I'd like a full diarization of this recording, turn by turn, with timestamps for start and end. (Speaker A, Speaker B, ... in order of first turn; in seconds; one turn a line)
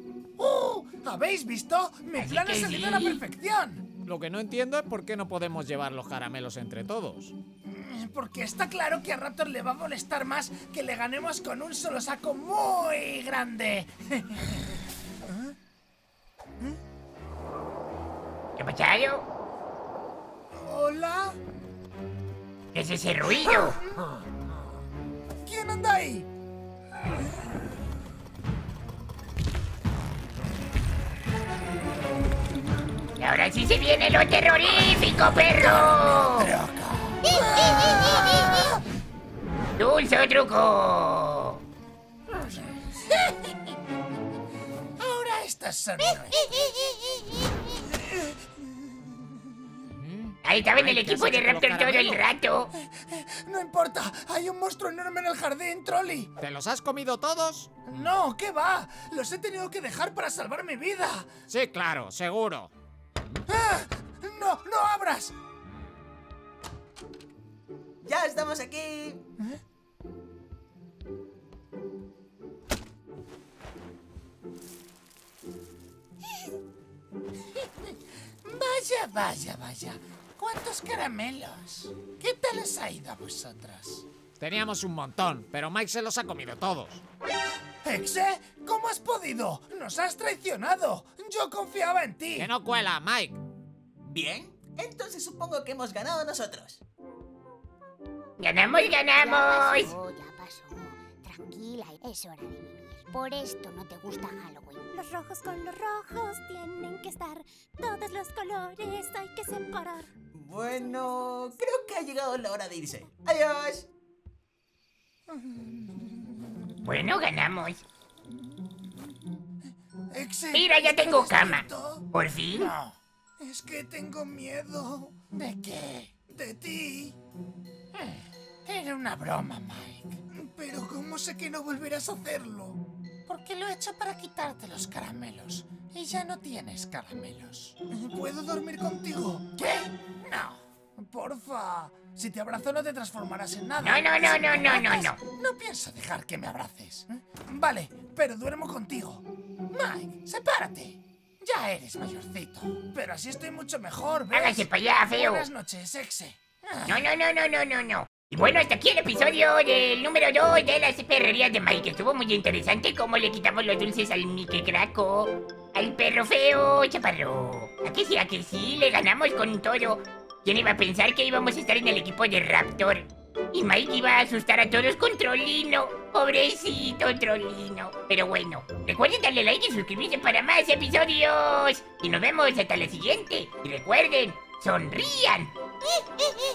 Speaker A: 0.4-3.9
Speaker B: 2.2-3.2
Speaker C: 4.0-7.3
Speaker A: 7.7-15.5
Speaker B: 18.6-19.3
Speaker A: 20.5-21.4
Speaker B: 22.7-23.8
Speaker A: 23.4-24.1
Speaker A: 25.4-26.3
Speaker B: 33.2-36.5
Speaker A: 35.6-38.7
Speaker B: 39.8-41.6
Speaker A: 42.7-43.5
Speaker A: 45.0-46.5
Speaker A: 48.1-48.4
Speaker C: 50.1-52.2
Speaker B: 50.4-52.7
Speaker A: 52.8-56.3
Speaker C: 56.4-58.1
Speaker A: 57.9-61.3
Speaker C: 61.5-62.7
Speaker A: 63.5-65.3
Speaker D: 68.0-69.2
Speaker A: 77.6-84.1
Speaker C: 84.4-87.0
Speaker A: 87.8-92.5
Speaker C: 92.4-93.4
Speaker D: 94.0-96.8
Speaker B: 98.4-100.0
Speaker E: 99.2-104.9
Speaker F: 104.9-110.1
Speaker D: 110.3-113.9
Speaker A: 115.3-116.1
Speaker B: 116.8-117.8
Speaker A: 120.1-127.2
Speaker B: 120.5-122.7
Speaker A: 128.0-157.1
Speaker B: 143.8-145.2
Speaker B: 154.3-155.5
Speaker B: 156.9-185.5